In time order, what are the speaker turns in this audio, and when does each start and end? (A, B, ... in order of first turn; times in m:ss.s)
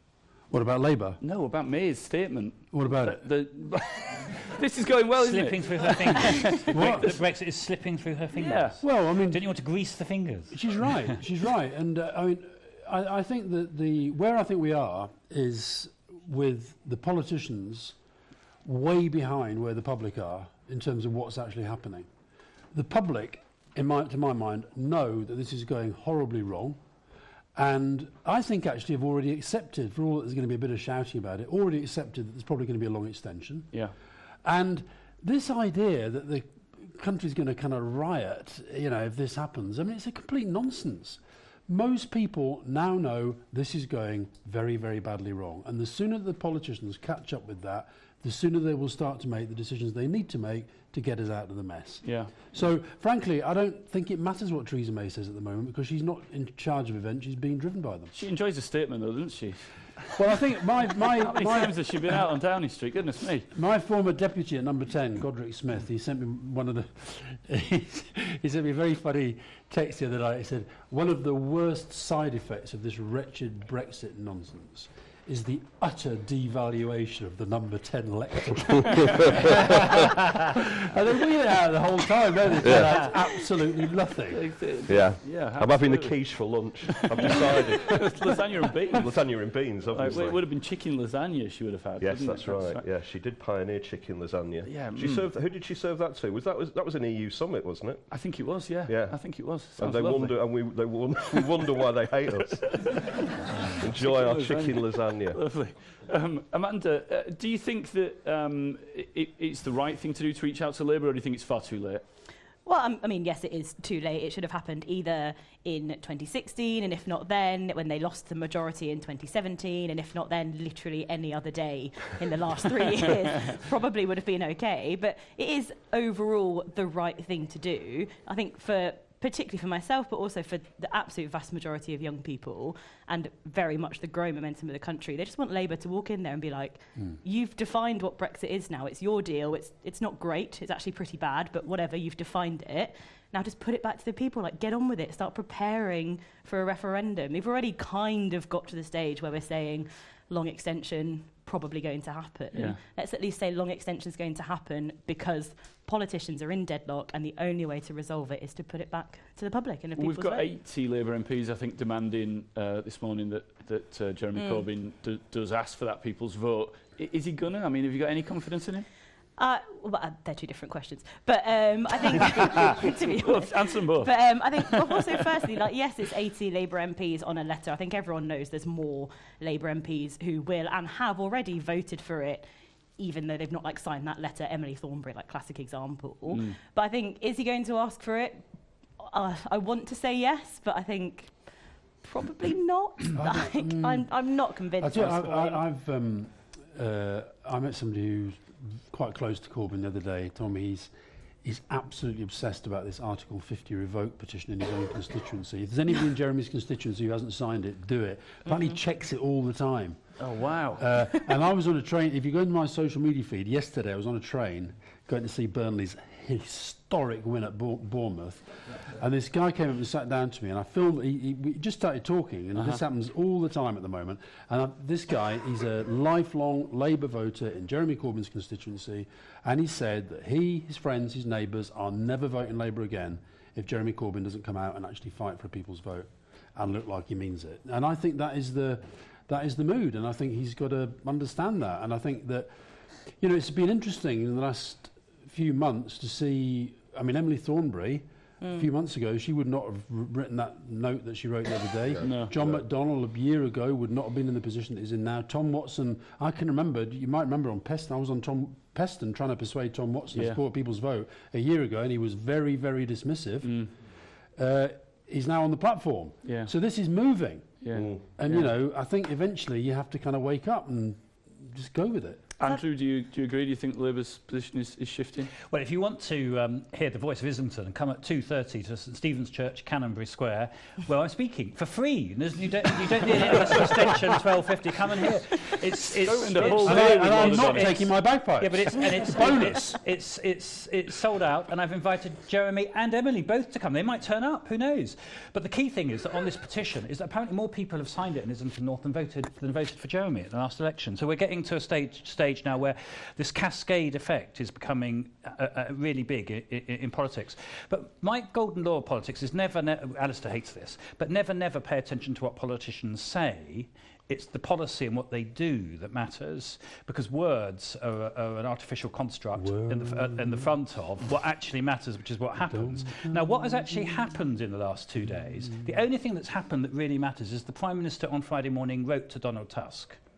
0:00.5-0:01.2 A
0:01.2-0:07.1 B
0:02.7-0:03.2 A
0:05.2-0:10.6 C
0:06.7-0:07.1 A
0:08.4-0:08.8 B
0:08.8-0:09.4 A
0:10.5-0:18.0 A
0:18.6-0:22.1 A
0:22.7-0:26.8 A
0:27.6-0:33.7 A
0:34.4-0:58.1 A
0:52.0-0:52.3 B
0:58.1-0:59.7 B
1:00.1-1:01.8 A
1:01.0-1:03.5 B
1:03.5-1:24.4 A
1:19.0-1:20.0 D
1:22.6-1:23.0 D
1:22.8-1:23.1 B
1:24.3-1:26.2 B
1:24.9-1:28.4 D
1:26.9-1:29.2 B
1:28.9-1:30.4 D
1:29.9-1:32.8 B
1:32.0-1:38.1 D
1:34.6-1:35.3 B
1:38.1-1:40.4 B
1:38.8-1:45.4 D
1:42.4-1:43.0 B
1:43.6-1:52.0 B
1:52.6-2:40.5 E
2:32.5-2:32.8 B
2:40.0-2:48.9 B
2:44.3-2:44.6 E
2:49.4-3:02.4 E
2:52.4-2:55.3 B
3:03.0-3:08.4 E
3:09.0-3:11.4 E
3:12.0-3:15.6 E
3:13.2-3:14.1 A
3:14.8-3:20.9 A
3:21.4-3:30.1 A
3:30.3-3:30.8 B
3:30.7-4:02.5 A
4:03.2-4:23.6 A
4:08.4-4:08.7 E
4:11.9-4:12.6 D
4:12.0-4:12.4 B
4:20.1-4:20.4 B
4:23.4-4:23.7 B
4:24.4-4:27.6 A
4:26.2-4:26.5 B
4:27.6-4:28.5 B
4:27.7-4:28.0 D
4:28.2-4:32.2 A
4:32.4-4:35.3 B
4:35.5-5:30.0 C
4:46.0-4:47.9 B
4:46.6-4:49.8 A
5:19.4-5:20.4 A
5:22.5-5:23.7 A